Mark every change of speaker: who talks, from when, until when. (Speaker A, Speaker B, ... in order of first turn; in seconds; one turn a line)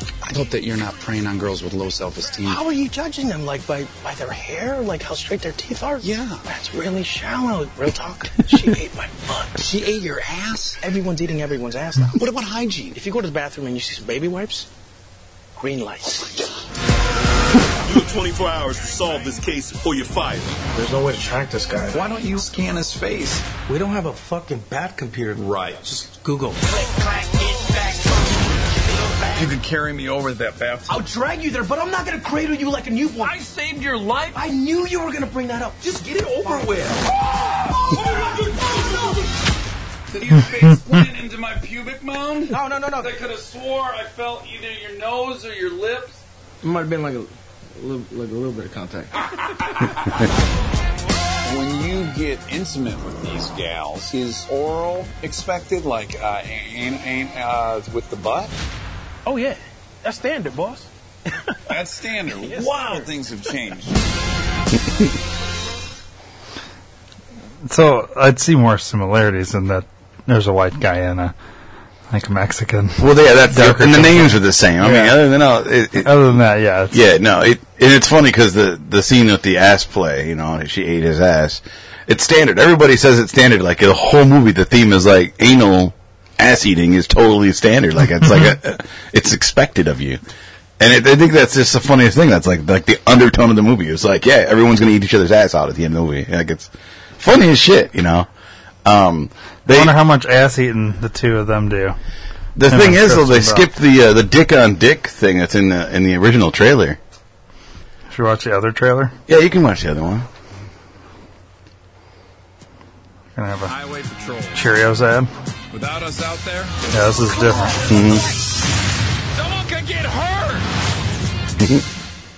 Speaker A: 0.2-2.6
Speaker B: 2.4-9.6
Speaker A: 6.0-6.4
Speaker A: 9.6-10.8
Speaker B: 10.8-12.2
Speaker A: 12.2-13.0
Speaker B: 12.9-14.7
Speaker B: 15.6-16.4
Speaker C: 17.8-20.6
Speaker B: 20.7-22.0
Speaker A: 21.9-23.5
Speaker B: 23.7-26.7
Speaker A: 25.4-25.9
Speaker A: 29.3-31.1
Speaker B: 30.9-33.4
Speaker A: 33.2-34.4
Speaker B: 34.3-37.0
Speaker A: 36.4-39.2
Speaker A: 40.1-46.2
Speaker B: 42.5-43.1
Speaker B: 46.6-49.1
Speaker A: 49.3-50.1
Speaker A: 51.4-58.5
Speaker B: 59.2-61.5
Speaker A: 61.7-64.0
Speaker B: 62.4-63.1
Speaker D: 67.7-71.3
Speaker D: 72.1-75.2
Speaker E: 73.0-76.3
Speaker D: 76.0-77.0
Speaker E: 76.9-90.2
Speaker E: 90.8-98.3
Speaker E: 98.8-99.9
Speaker D: 99.7-102.0
Speaker E: 102.6-107.0
Speaker D: 102.7-103.7
Speaker D: 108.1-109.1
Speaker E: 109.3-110.3
Speaker D: 113.4-113.7
Speaker A: 113.7-114.6
Speaker D: 114.5-115.3
Speaker A: 115.7-116.8
Speaker D: 116.9-117.8
Speaker E: 117.9-118.2
Speaker A: 119.3-120.7
Speaker E: 121.6-121.8